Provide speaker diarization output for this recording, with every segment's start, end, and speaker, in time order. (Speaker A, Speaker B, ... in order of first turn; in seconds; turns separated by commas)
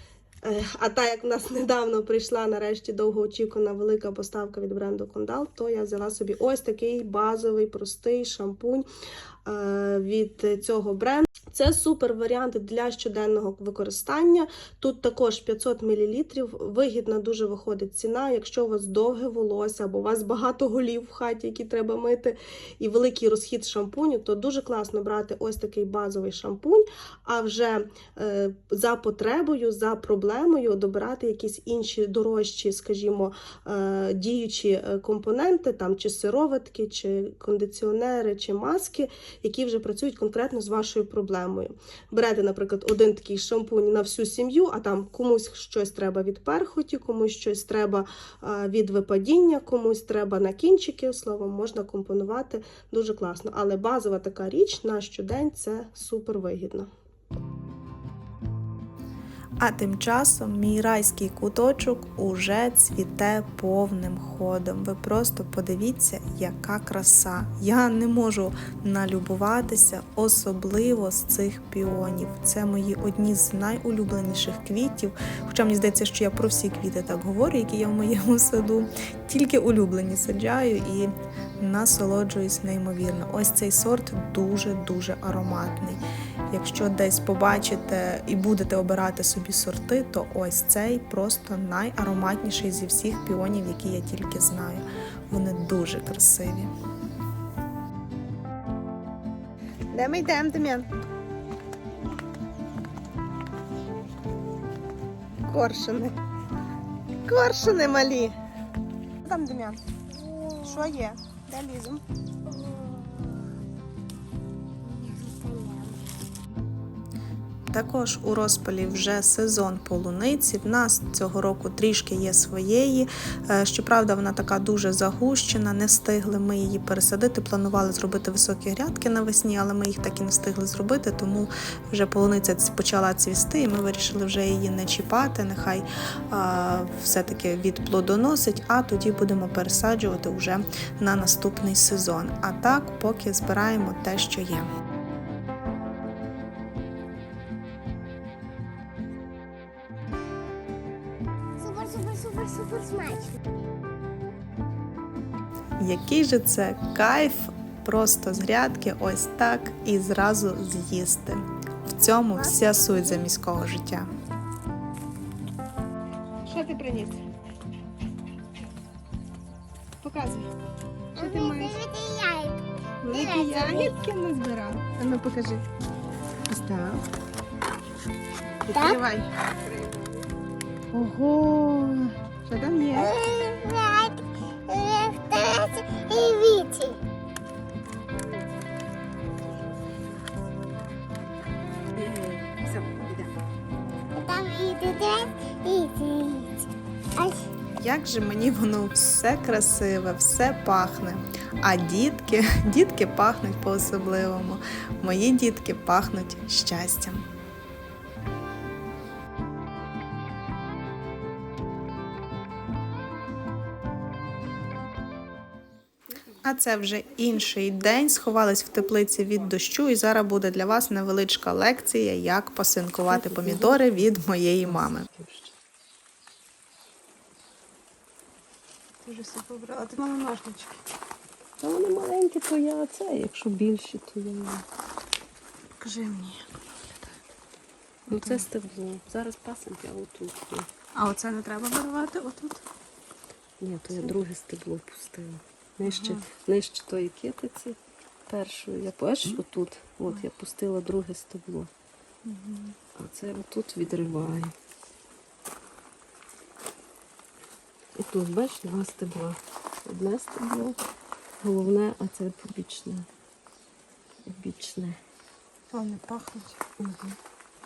Speaker A: 0.4-8.9, Speaker A: 9.4-56.9, Speaker B: 59.6-96.7, Speaker B: 99.9-100.9, Speaker B: 105.5-106.0, Speaker B: 107.3-108.3, Speaker A: 107.4-107.9, Speaker A: 109.2-109.8, Speaker C: 110.2-110.9, Speaker A: 110.6-112.0, Speaker C: 112.5-113.4, Speaker C: 114.8-116.0, Speaker B: 117.7-144.7, Speaker C: 151.6-153.4, Speaker B: 155.8-164.1, Speaker A: 166.4-167.2, Speaker A: 170.0-170.5, Speaker A: 171.2-171.8, Speaker C: 171.2-173.9, Speaker A: 173.0-175.6, Speaker A: 176.5-177.0, Speaker A: 178.7-179.3, Speaker C: 178.7-179.0, Speaker A: 180.9-183.1, Speaker C: 182.9-187.0, Speaker A: 191.9-193.3, Speaker C: 194.1-197.4, Speaker B: 197.8-207.2, Speaker B: 216.4-225.1, Speaker D: 223.1-224.1, Speaker D: 224.6-225.5, Speaker A: 229.1-230.7, Speaker D: 231.6-234.6, Speaker B: 235.8-236.9, Speaker D: 238.1-240.7, Speaker B: 238.1-238.4, Speaker B: 240.9-242.6, Speaker D: 243.6-247.8, Speaker B: 245.8-246.2, Speaker D: 248.3-251.7, Speaker B: 252.3-252.7, Speaker D: 252.9-254.5, Speaker D: 257.9-260.8, Speaker D: 261.4-263.1, Speaker D: 264.3-265.0, Speaker B: 265.7-266.5, Speaker D: 266.8-267.2